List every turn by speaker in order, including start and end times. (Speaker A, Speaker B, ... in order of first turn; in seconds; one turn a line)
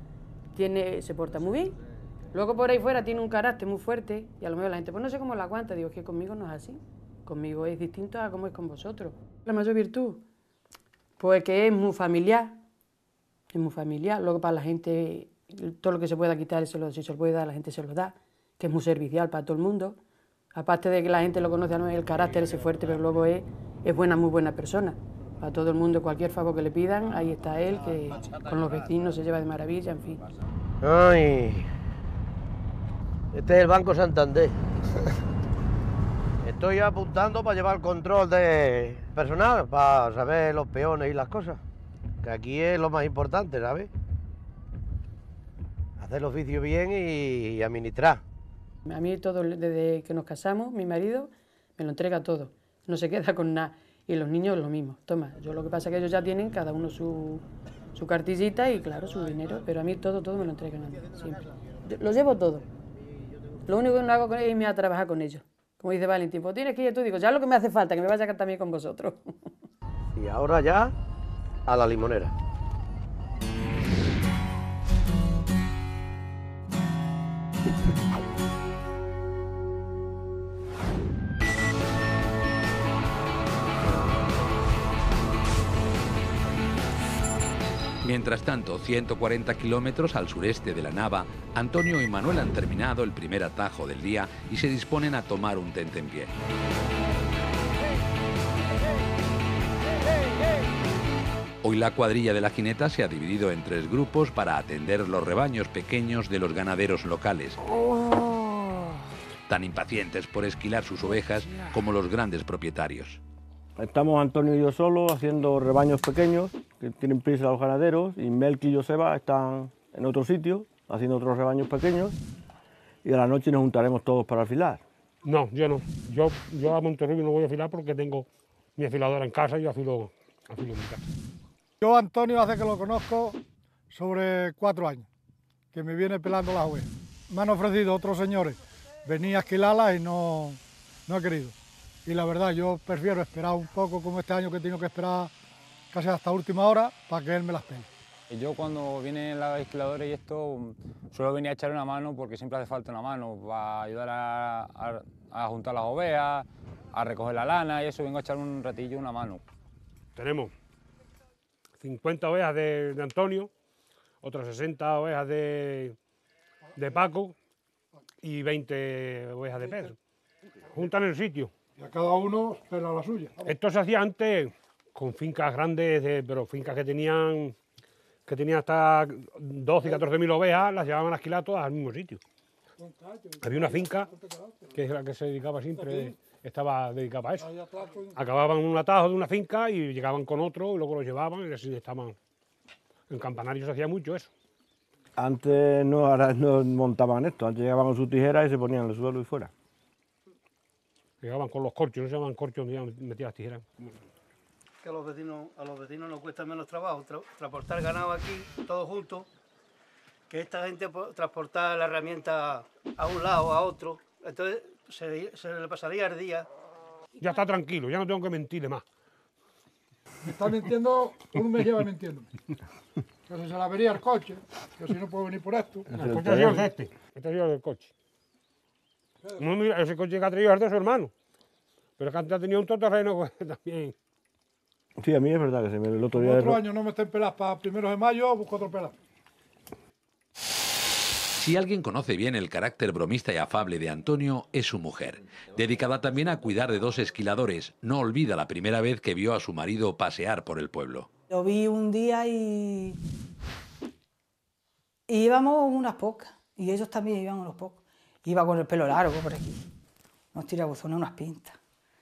Speaker A: 0.5-1.8
Speaker A: 2.3-10.2
Speaker A: 11.2-12.6
Speaker A: 13.5-20.0
Speaker A: 20.5-30.2
Speaker B: 30.8-31.7
Speaker B: 33.3-34.6
Speaker B: 36.4-41.6
Speaker B: 42.2-43.9
Speaker B: 46.0-48.2
Speaker A: 48.9-57.4
Speaker A: 58.0-62.6
Speaker A: 63.7-69.5
Speaker B: 70.2-70.9
Speaker B: 71.7-72.3
Speaker C: 88.0-96.3
Speaker C: 101.6-107.6
Speaker C: 109.5-113.2
Speaker D: 113.8-122.2
Speaker D: 123.0-124.8
Speaker E: 125.2-131.0
Speaker F: 131.8-133.4
Speaker F: 133.9-135.1
Speaker F: 135.7-141.5
Speaker F: 142.1-145.3
Speaker F: 145.9-147.9
Speaker G: 148.3-159.4
Speaker E: 160.2-160.5
Speaker E: 161.8-163.5
Speaker E: 164.2-166.0
Speaker E: 166.8-167.3
Speaker E: 168.2-169.9
Speaker E: 170.7-171.5
Speaker F: 171.8-173.6
Speaker E: 173.4-177.6
Speaker E: 178.3-182.2
Speaker F: 182.8-184.7
Speaker E: 183.4-184.1
Speaker E: 184.7-187.5
Speaker F: 185.8-186.1
Speaker F: 187.4-188.2
Speaker E: 188.2-192.2
Speaker E: 193.1-194.3
Speaker D: 195.2-199.5
Speaker E: 201.2-204.0
Speaker E: 217.2-218.8
Speaker F: 220.2-222.3
Speaker F: 223.3-225.9
Speaker D: 225.9-226.7
Speaker E: 225.9-227.9
Speaker E: 229.4-231.1
Speaker E: 232.0-233.9
Speaker D: 235.0-236.6
Speaker F: 236.2-238.9
Speaker C: 241.4-251.1
Speaker H: 251.3-253.0
Speaker H: 255.1-259.6
Speaker H: 260.3-261.6